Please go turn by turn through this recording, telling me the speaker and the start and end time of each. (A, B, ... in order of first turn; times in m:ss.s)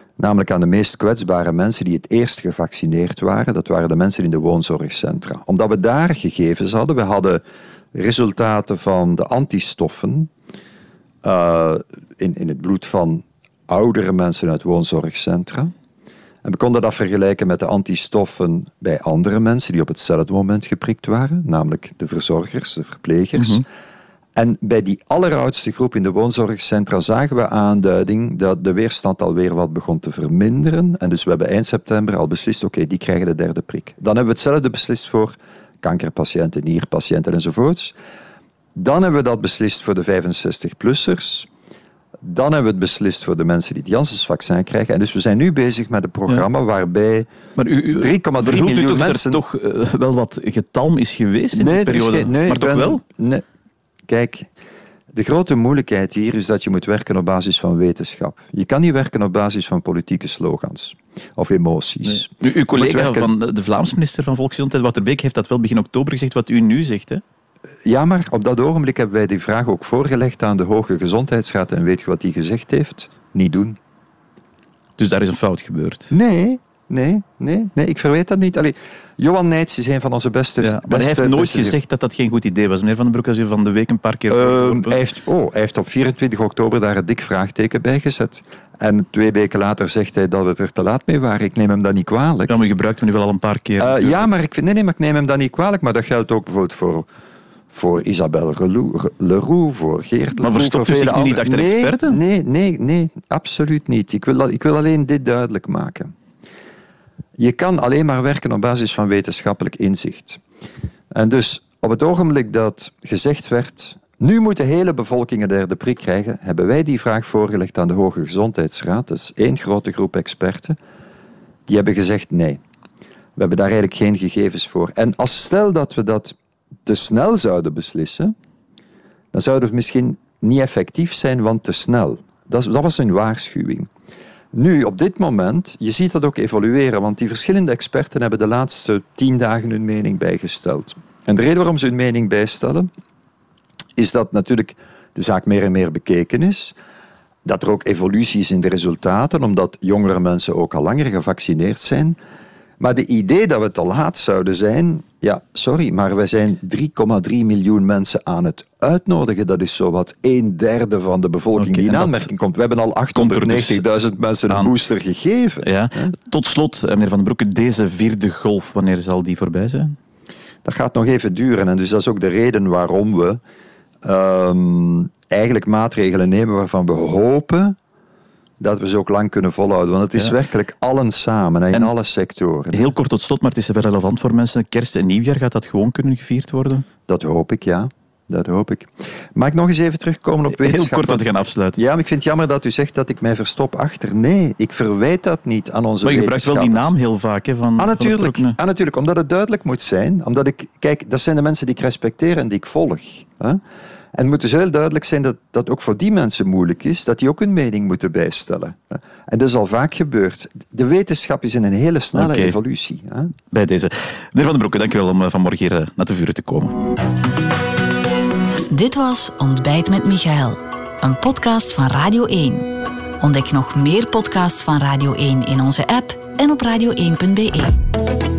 0:00.2-0:07.4 A
0:07.9-0:10.3 A
0:11.2-0:15.7 A
0:16.4-0:23.6 A
0:23.4-0:23.6 B
0:24.4-0:37.9 A
0:38.8-0:41.5 A
0:42.2-0:47.3 A
0:47.6-0:53.0 B
0:47.9-0:49.4 A
0:51.5-0:53.4 A
0:54.1-0:54.5 A
0:55.1-1:03.3 A
1:02.0-1:07.2 B
1:07.8-1:13.8 A
1:15.0-1:16.1 B
1:16.1-1:21.8 A
1:20.6-1:25.0 B
1:24.3-1:32.6 A
1:32.5-1:34.3 B
1:33.8-1:37.1 A
1:37.7-1:46.1 A
1:40.4-1:42.2 B
1:47.4-1:50.4 A
1:51.1-2:00.8 A
2:01.7-2:02.6 A
2:03.4-2:08.3 A
2:09.3-2:13.9 A
2:14.5-2:22.9 A
2:24.0-2:26.7 A
2:27.4-2:32.2 A
2:32.8-2:46.1 A
2:41.6-2:42.3 B
2:43.1-2:43.8 B
2:45.6-2:50.0 B
2:50.6-2:53.4 A
2:54.0-2:57.8 A
2:58.6-3:02.9 A
3:02.7-3:06.9 B
3:07.1-3:16.9 A
3:10.5-3:11.8 B
3:16.0-3:18.6 B
3:17.8-3:23.6 A
3:24.1-3:33.3 A
3:32.1-3:32.6 B
3:33.5-3:36.7 B
3:38.7-3:42.7 C
3:43.2-3:47.8 C